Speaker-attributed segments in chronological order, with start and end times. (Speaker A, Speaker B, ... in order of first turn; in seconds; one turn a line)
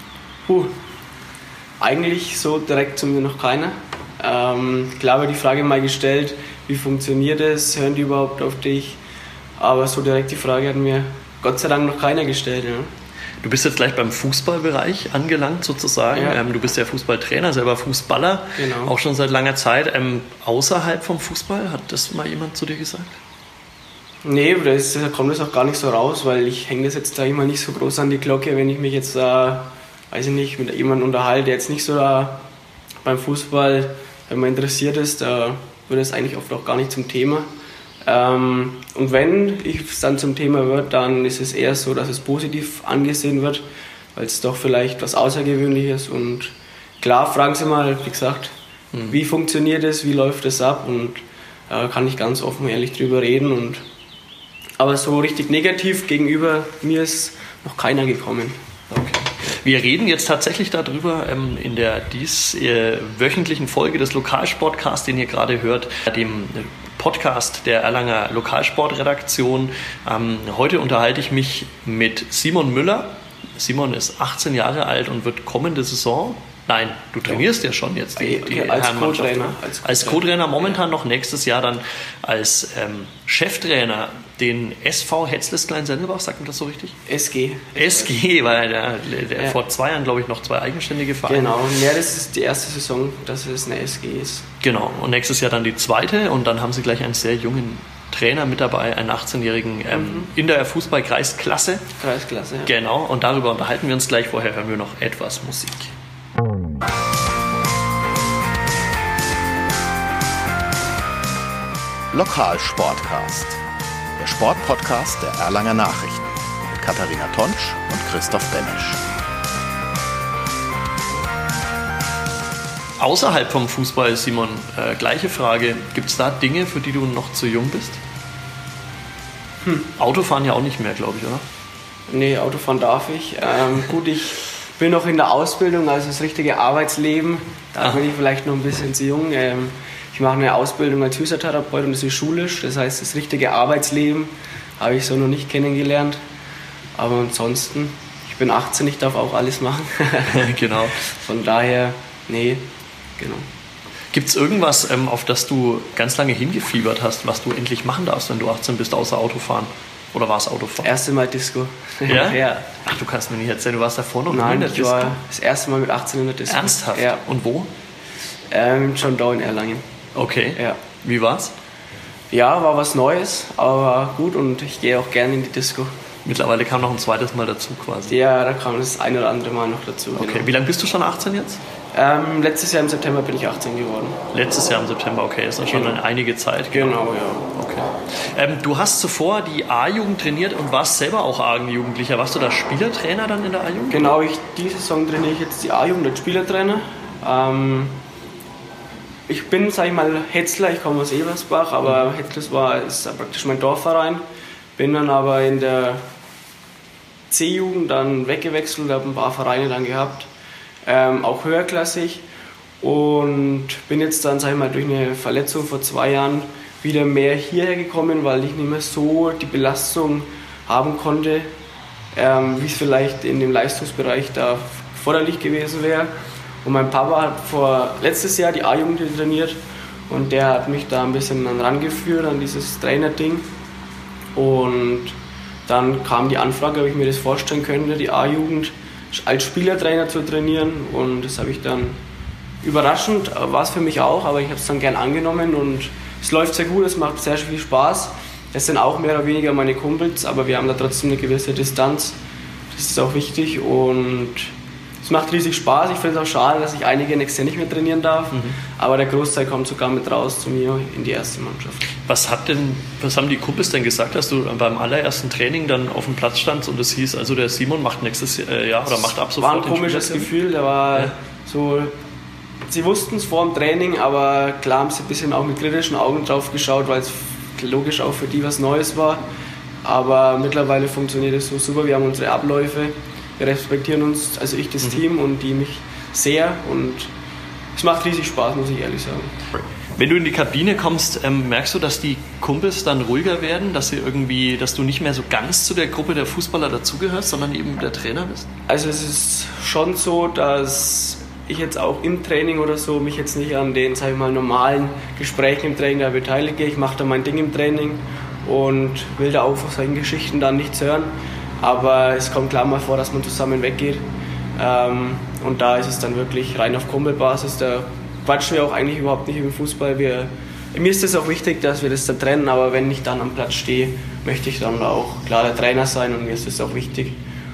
Speaker A: 0.5-0.7
Speaker A: 1.8-9.0
Speaker A: 9.6-12.9
Speaker B: 13.4-23.2
Speaker A: 16.1-16.4
Speaker A: 18.6-18.9
Speaker A: 24.2-32.4
Speaker A: 33.0-37.5
Speaker A: 38.0-43.6
Speaker A: 44.1-48.6
Speaker A: 49.1-53.8
Speaker A: 54.8-58.6
Speaker B: 58.9-87.0
Speaker A: 78.2-80.2
Speaker A: 87.1-88.2
Speaker B: 87.7-91.5
Speaker A: 91.3-94.5
Speaker B: 94.6-101.9
Speaker A: 99.9-100.3
Speaker A: 102.0-102.7
Speaker B: 102.7-105.9
Speaker C: 112.1-113.6
Speaker C: 114.2-119.0
Speaker B: 123.0-128.0
Speaker B: 129.9-131.4
Speaker A: 132.1-146.2
Speaker A: 146.9-152.7
Speaker B: 150.3-151.1
Speaker A: 153.2-153.5
Speaker B: 154.1-160.9
Speaker A: 160.8-162.7
Speaker B: 162.1-165.2
Speaker A: 164.3-167.2
Speaker B: 166.5-167.7
Speaker A: 168.5-169.8
Speaker B: 170.2-171.5
Speaker A: 172.3-175.9
Speaker B: 176.2-178.2
Speaker A: 178.1-180.5
Speaker B: 180.2-181.6
Speaker A: 181.9-184.2
Speaker B: 184.3-187.0
Speaker A: 185.7-186.0
Speaker A: 186.7-187.5
Speaker B: 187.5-194.1
Speaker A: 193.9-198.0
Speaker A: 199.3-204.2
Speaker A: 204.8-206.1
Speaker A: 207.3-210.3
Speaker A: 210.8-212.2
Speaker A: 212.8-221.5
Speaker A: 222.1-226.1
Speaker A: 226.6-233.5
Speaker A: 234.3-235.2
Speaker A: 235.7-242.0
Speaker A: 242.6-252.2
Speaker A: 252.7-261.8
Speaker B: 262.0-270.3
Speaker A: 269.4-271.9
Speaker A: 272.7-279.2
Speaker A: 279.8-287.1
Speaker A: 287.7-289.3
Speaker B: 290.0-298.5
Speaker A: 298.7-327.2